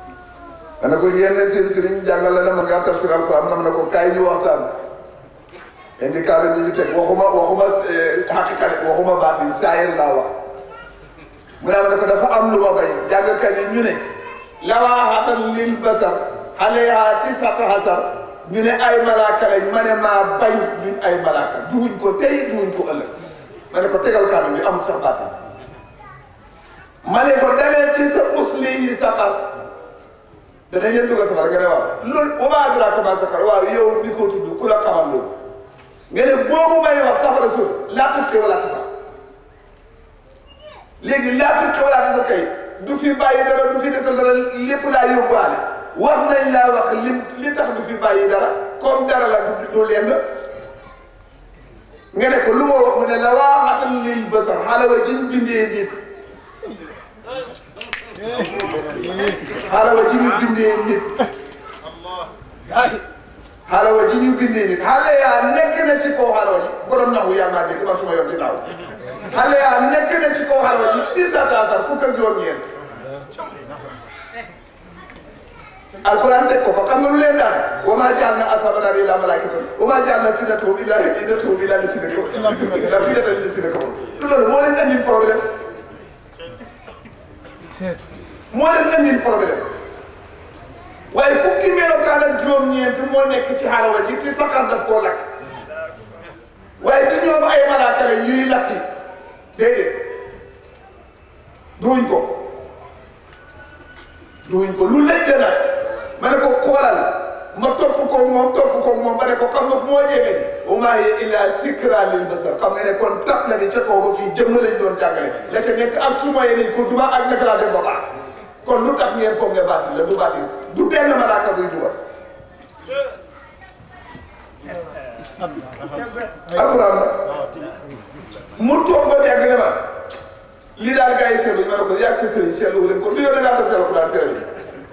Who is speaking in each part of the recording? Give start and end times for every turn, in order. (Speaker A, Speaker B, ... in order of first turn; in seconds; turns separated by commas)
Speaker A: 0.8-4.7, Speaker A: 6.0-10.3, Speaker A: 11.6-14.0, Speaker A: 14.6-23.1, Speaker A: 23.7-25.3, Speaker A: 27.1-29.4, Speaker A: 30.7-35.3, Speaker A: 36.1-38.9, Speaker A: 41.0-50.2, Speaker A: 52.1-56.0, Speaker A: 59.6-61.1, Speaker A: 63.7-68.6, Speaker A: 69.3-72.6, Speaker A: 76.0-85.5, Speaker A: 88.5-89.7, Speaker A: 91.1-95.2, Speaker A: 96.8-98.8, Speaker A: 99.5-100.1, Speaker A: 101.8-102.4, Speaker A: 104.5-118.0, Speaker A: 118.6-122.0, Speaker A: 126.5-127.2, Speaker A: 128.6-129.8, Speaker A: 130.8-134.5